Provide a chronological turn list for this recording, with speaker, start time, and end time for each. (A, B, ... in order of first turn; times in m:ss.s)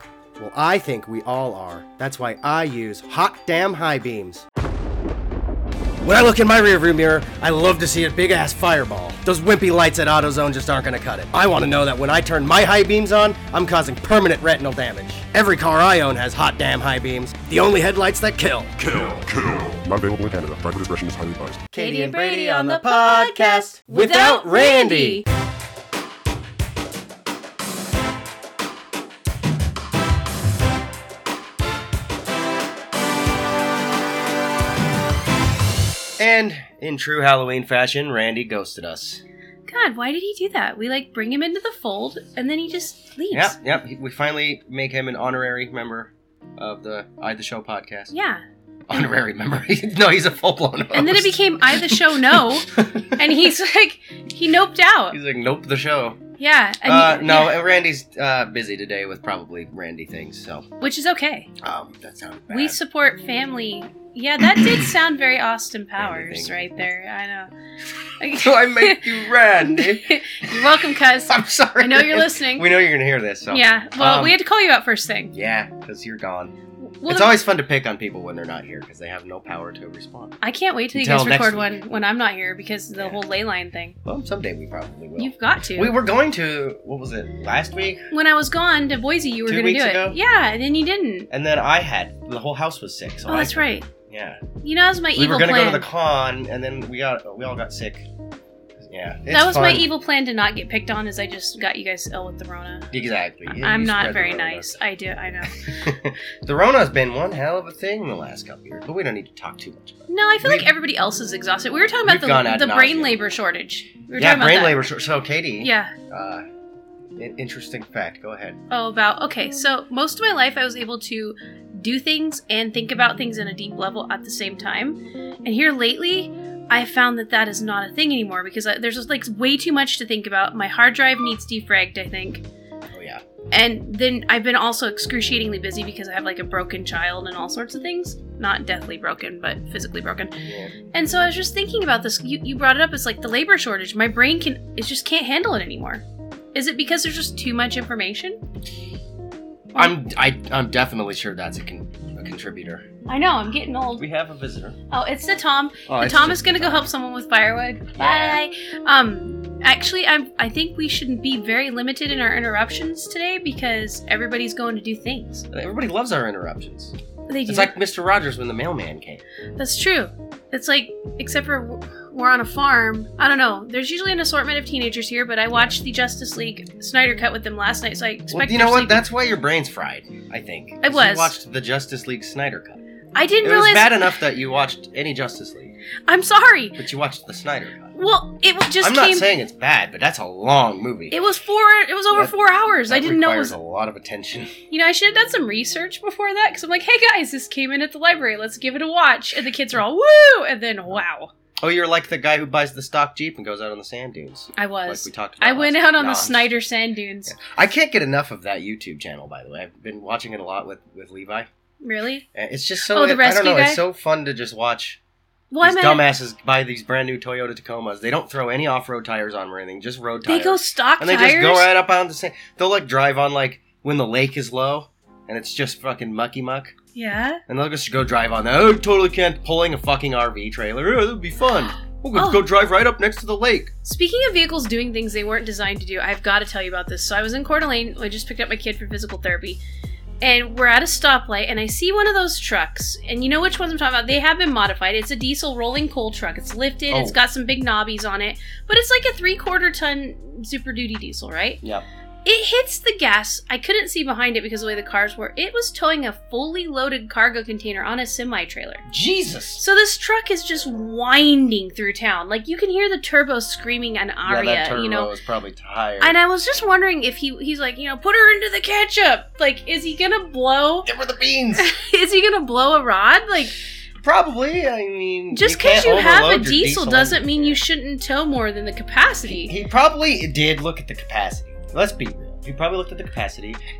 0:00.4-0:04.5 A
0:06.0-0:19.2 A
0:19.0-0:21.7 B
0:21.7-0:25.2 A
0:21.7-0:25.2 C
0:36.2-0:39.2 A
0:39.7-0:43.6 C
0:43.3-0:48.1 A
0:48.1-0:48.4 C
0:48.9-0:53.2 A
0:50.9-0:55.2 C
0:55.1-0:56.2 A
0:56.4-0:57.6 C
0:56.8-1:00.7 A
1:00.8-1:01.5 C
1:01.6-1:02.8 A
1:02.5-1:07.5 C
1:04.5-1:04.8 A
1:06.0-1:06.6 A
1:08.2-1:12.7 C
1:08.3-1:14.4 A
1:13.5-1:15.3 C
1:15.3-1:16.5 A
1:16.8-1:17.3 C
1:17.0-1:20.4 A
1:20.4-1:24.0 C
1:20.9-1:21.7 A
1:24.0-1:28.1 A
1:25.2-1:25.9 C
1:28.1-1:31.3 C
1:29.4-1:30.2 A
1:31.3-1:34.4 A
1:33.3-1:33.9 C
1:34.6-1:35.9 C
1:35.2-1:38.0 A
1:38.8-1:39.9 A
1:39.3-1:42.9 C
1:42.9-1:44.8 A
1:43.4-1:45.7 C
1:45.5-1:50.7 A
1:50.1-1:54.8 C
1:52.0-1:53.2 A
1:54.1-1:56.4 A
1:55.6-1:55.9 C
1:57.2-1:58.6 A
1:58.7-2:12.4 C
2:12.9-2:13.2 A
2:13.5-2:20.3 C
2:20.4-2:20.7 A
2:20.9-2:28.4 C
2:29.7-2:32.8 A
2:33.1-2:34.0 C
2:34.0-2:34.8 A
2:34.9-2:45.5 C
2:35.8-2:36.9 A
2:38.0-2:38.4 A
2:45.5-2:46.9 A
2:47.3-2:47.7 C
2:47.4-2:49.2 A
2:49.6-2:59.0 C
2:58.3-3:02.8 A
3:00.8-3:01.3 C
3:03.1-3:04.1 C
3:03.4-3:05.7 A
3:06.1-3:06.8 C
3:06.8-3:07.9 A
3:08.0-3:09.3 C
3:08.8-3:11.2 A
3:11.1-3:13.5 C
3:12.9-3:14.6 A
3:14.7-3:21.3 C
3:21.6-3:26.6 A
3:24.5-3:27.4 C
3:27.3-3:31.5 A
3:31.8-3:32.2 C
3:32.3-3:35.0 A
3:32.9-3:33.8 C
3:35.5-3:36.0 C
3:35.6-3:46.8 A
3:40.2-3:41.7 C
3:46.9-3:47.4 C
3:47.5-3:53.7 A
3:52.1-3:52.4 C
3:53.8-3:59.6 C
4:00.2-4:11.6 C
4:06.9-4:07.2 A
4:12.2-4:18.8 C
4:18.9-4:19.6 A
4:19.6-4:25.1 C
4:24.2-4:26.2 A
4:26.0-4:30.9 C
4:30.8-4:31.7 A
4:31.6-4:33.6 C
4:34.0-4:37.6 A
4:35.3-4:39.6 C
4:39.2-4:43.6 A